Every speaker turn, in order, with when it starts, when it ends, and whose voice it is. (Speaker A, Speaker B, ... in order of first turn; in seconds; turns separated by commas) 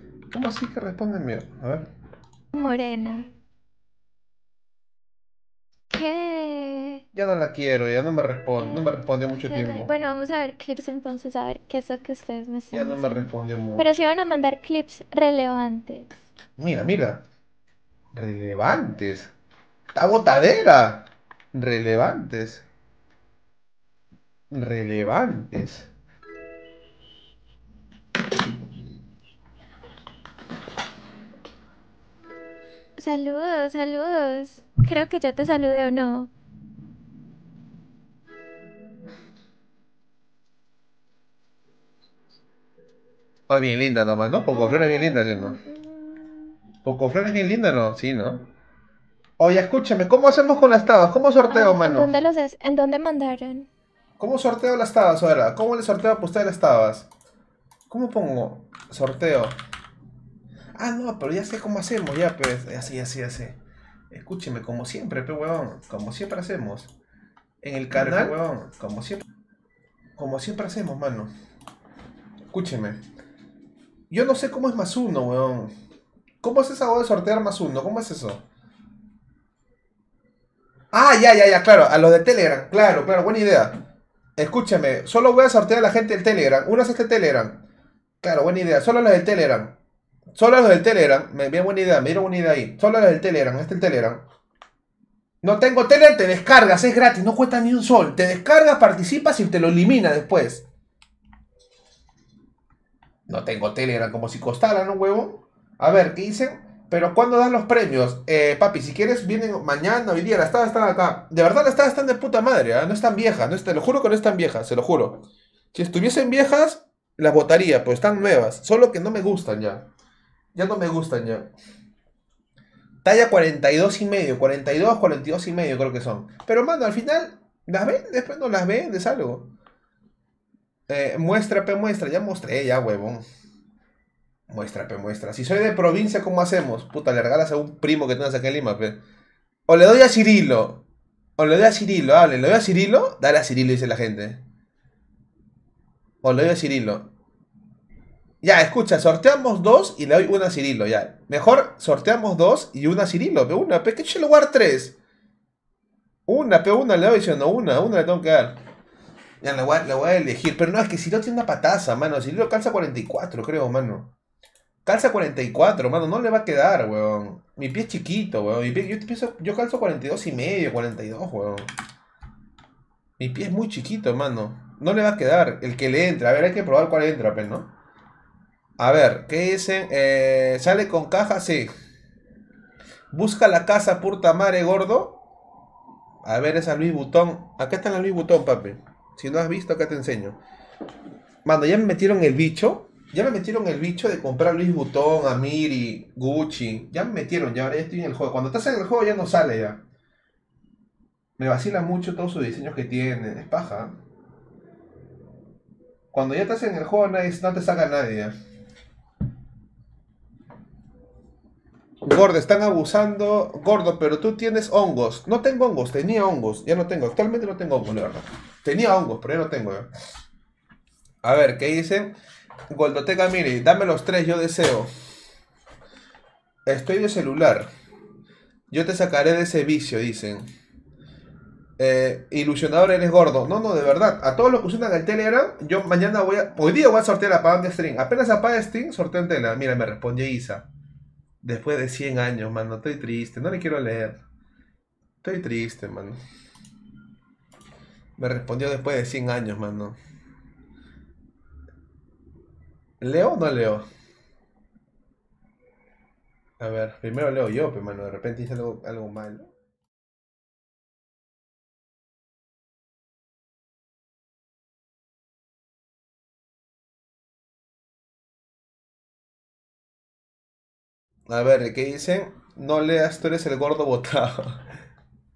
Speaker A: 0.3-1.9, Speaker B: 2.5-3.3, Speaker B: 5.9-7.0, Speaker A: 7.1-9.9, Speaker B: 9.4-13.2, Speaker A: 12.7-13.8, Speaker B: 13.8-16.1, Speaker A: 16.6-17.2, Speaker A: 18.1-19.3, Speaker A: 19.9-22.6, Speaker A: 24.5-25.9, Speaker B: 33.0-36.3, Speaker A: 43.5-45.6, Speaker A: 46.8-48.4, Speaker A: 49.4-52.1, Speaker B: 51.5-53.6, Speaker A: 54.2-57.1, Speaker A: 57.9-59.5, Speaker A: 60.7-63.6, Speaker A: 64.1-66.9, Speaker A: 67.6-69.2, Speaker A: 70.2-71.3, Speaker A: 72.5-73.0, Speaker A: 74.1-75.7, Speaker A: 76.4-78.4, Speaker A: 80.9-83.8, Speaker A: 84.3-87.6, Speaker A: 88.2-89.7, Speaker A: 90.3-94.2, Speaker A: 95.4-100.6, Speaker A: 103.3-119.8, Speaker A: 120.5-121.5, Speaker A: 123.0-129.5, Speaker A: 130.9-133.2, Speaker A: 134.5-139.0, Speaker A: 139.7-140.8, Speaker A: 141.4-144.4, Speaker A: 146.2-147.1, Speaker A: 148.4-154.9, Speaker A: 156.3-158.6, Speaker A: 159.4-164.1, Speaker A: 164.8-171.7, Speaker A: 173.2-177.7, Speaker A: 178.8-181.7, Speaker A: 183.1-185.2, Speaker A: 186.2-190.4, Speaker A: 191.4-199.8, Speaker A: 201.4-203.9, Speaker A: 206.1-208.3, Speaker A: 212.0-219.9, Speaker A: 221.2-222.1, Speaker A: 222.7-224.9, Speaker A: 226.7-227.7, Speaker A: 228.7-230.5, Speaker A: 231.8-240.7, Speaker A: 241.4-244.2, Speaker A: 245.2-246.2, Speaker A: 248.2-250.0, Speaker A: 253.0-253.8, Speaker A: 256.6-259.5, Speaker A: 271.3-274.6